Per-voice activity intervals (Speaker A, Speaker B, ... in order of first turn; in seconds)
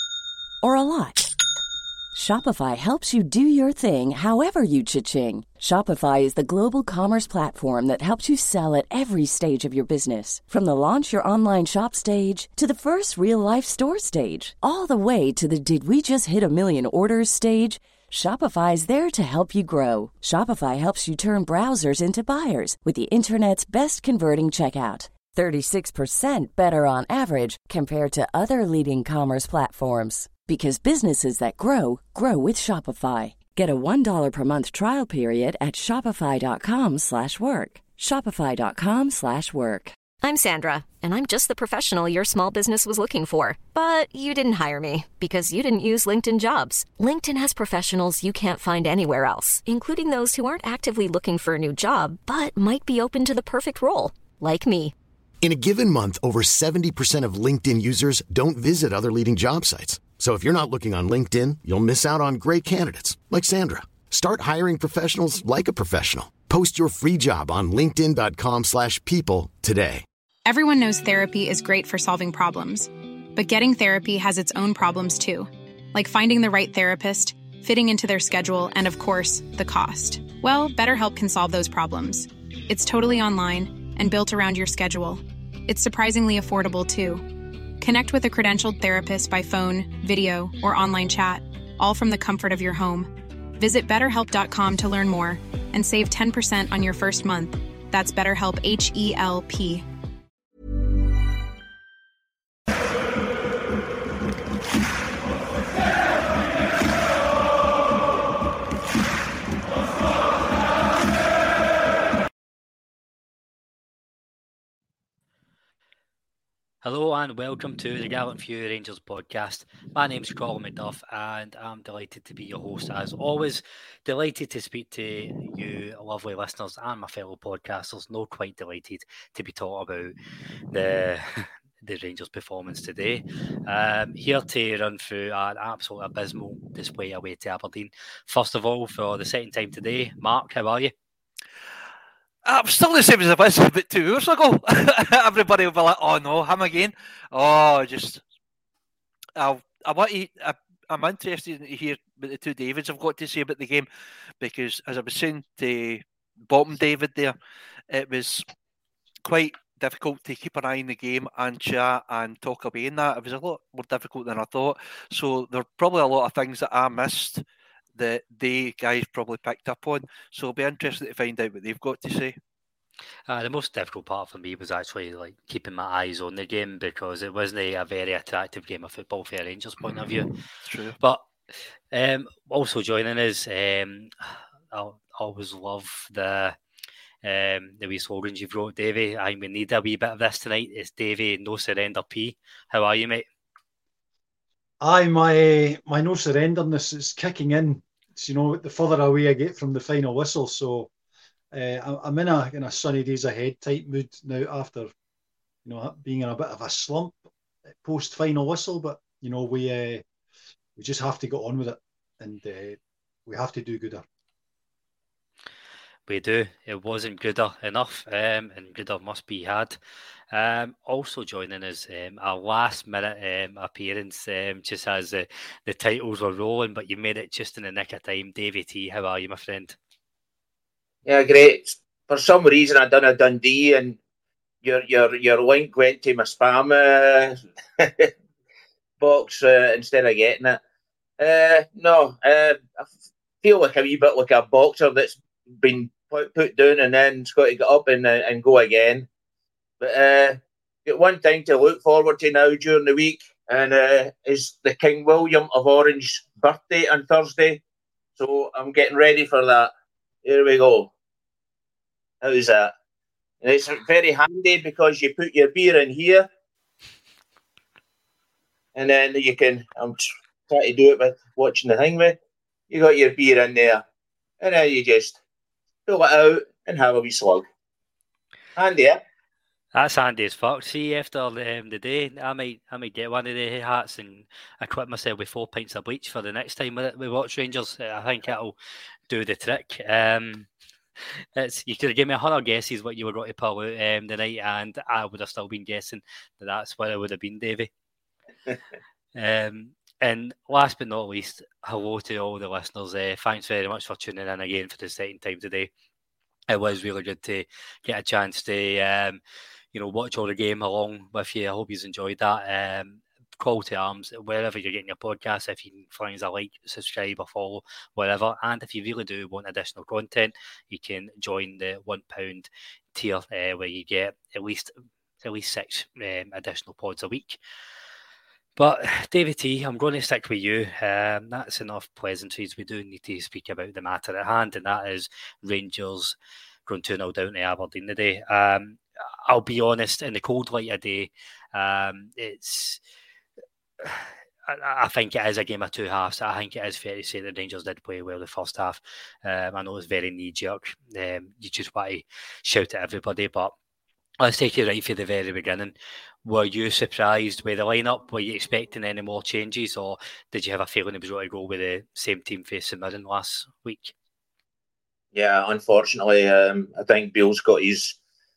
Speaker A: 0.6-1.3, 2.1-40.0
Speaker B: 40.2-54.9
Speaker C: 55.4-70.0
Speaker D: 70.5-99.8
Speaker E: 116.8-130.1, 130.7-140.9, 173.3-180.3, 181.0-181.3, 181.9-186.6, 187.2-193.3, 216.1-219.8, 220.3-229.8, 279.7-288.6, 289.1-290.5, 291.4-297.7, 299.2-305.7, 306.5-309.2, 309.7-327.4, 328.6-342.8, 343.8-353.6, 354.2-355.7, 356.2-363.9
Speaker F: 142.4-148.2, 149.4-153.9, 154.4-157.4, 157.9-158.5, 159.2-167.4, 168.0-172.4, 180.7-181.0
Speaker G: 194.8-200.9, 201.5-204.9, 205.7-207.2, 207.8-210.0, 210.8-214.1
Speaker H: 231.1-234.0, 234.6-238.1, 239.0-240.6, 241.2-242.9, 243.4-249.1, 249.8-257.6, 258.2-259.7, 260.2-260.9, 262.2-262.7, 263.4-266.3, 268.8-272.2, 272.7-273.8, 274.4-275.2, 275.9-277.5, 278.6-279.0, 365.1-368.0